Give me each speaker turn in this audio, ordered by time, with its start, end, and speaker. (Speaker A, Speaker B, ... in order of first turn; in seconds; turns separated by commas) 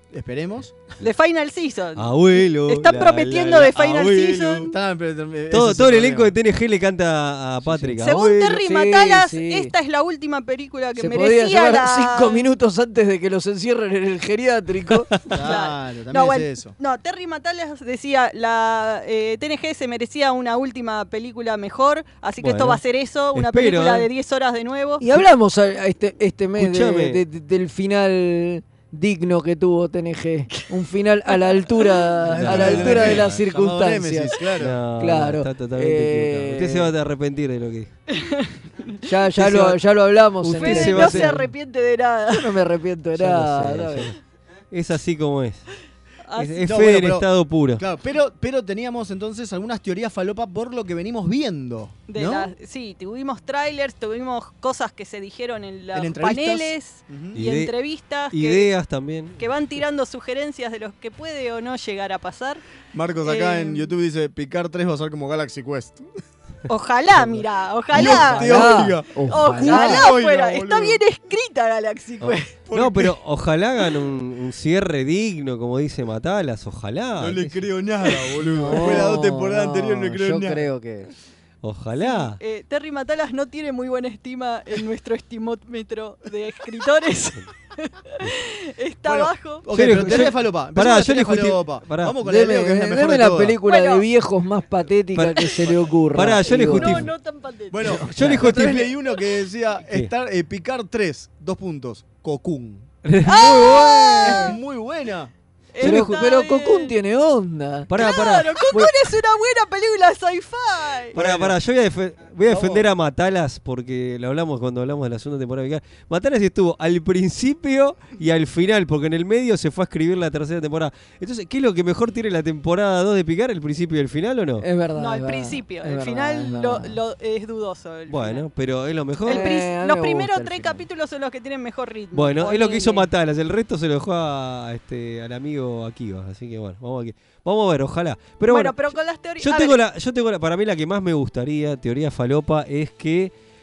Speaker A: 0.1-0.8, Speaker B: 1.0-4.7, Speaker C: 1.9-4.7, Speaker A: 4.6-6.3, Speaker C: 5.5-8.6, Speaker D: 7.6-9.7, Speaker B: 8.0-12.4, Speaker D: 10.9-15.1, Speaker A: 15.3-16.7, Speaker B: 15.4-25.0, Speaker C: 22.4-22.8, Speaker C: 23.3-24.1, Speaker D: 25.0-34.4, Speaker C: 26.6-27.2, Speaker B: 31.4-31.8, Speaker A: 32.3-34.8, Speaker C: 32.3-33.4, Speaker C: 34.6-37.9, Speaker D: 35.0-36.9, Speaker B: 38.1-38.9, Speaker D: 39.0-41.5, Speaker C: 39.4-39.8, Speaker C: 40.4-41.5, Speaker B: 40.6-42.5, Speaker D: 42.3-44.1, Speaker C: 43.1-44.1, Speaker C: 44.7-45.6, Speaker B: 46.3-46.5, Speaker C: 46.4-47.8, Speaker A: 46.6-52.5, Speaker B: 52.1-58.7, Speaker A: 55.9-57.4, Speaker C: 57.3-57.8, Speaker C: 58.3-59.5, Speaker B: 59.4-62.6, Speaker A: 62.9-66.1, Speaker B: 63.2-63.9, Speaker B: 66.7-68.7, Speaker C: 67.1-67.4, Speaker A: 67.9-71.0, Speaker D: 67.9-70.1, Speaker B: 69.3-72.5, Speaker C: 72.2-77.6, Speaker A: 72.7-73.1, Speaker A: 77.2-80.7, Speaker D: 78.4-81.1, Speaker C: 81.6-82.4, Speaker B: 82.0-87.4, Speaker B: 88.2-89.7, Speaker A: 89.0-93.6, Speaker C: 89.7-92.2, Speaker D: 92.2-97.1, Speaker B: 93.6-94.0, Speaker C: 95.1-97.1, Speaker B: 96.5-97.9, Speaker A: 97.7-102.9, Speaker D: 97.9-98.5, Speaker C: 98.1-98.9, Speaker C: 103.0-104.5, Speaker B: 103.2-104.6, Speaker A: 104.2-105.3, Speaker B: 105.7-106.9, Speaker C: 105.8-106.3, Speaker D: 105.8-107.9, Speaker C: 107.9-109.0, Speaker B: 108.0-111.1, Speaker A: 111.1-111.5, Speaker C: 111.1-124.6, Speaker A: 112.5-112.9, Speaker D: 124.6-127.0, Speaker B: 125.0-128.4, Speaker C: 128.1-129.6, Speaker B: 129.2-133.1, Speaker D: 129.3-130.9, Speaker C: 132.1-143.3, Speaker B: 138.4-139.8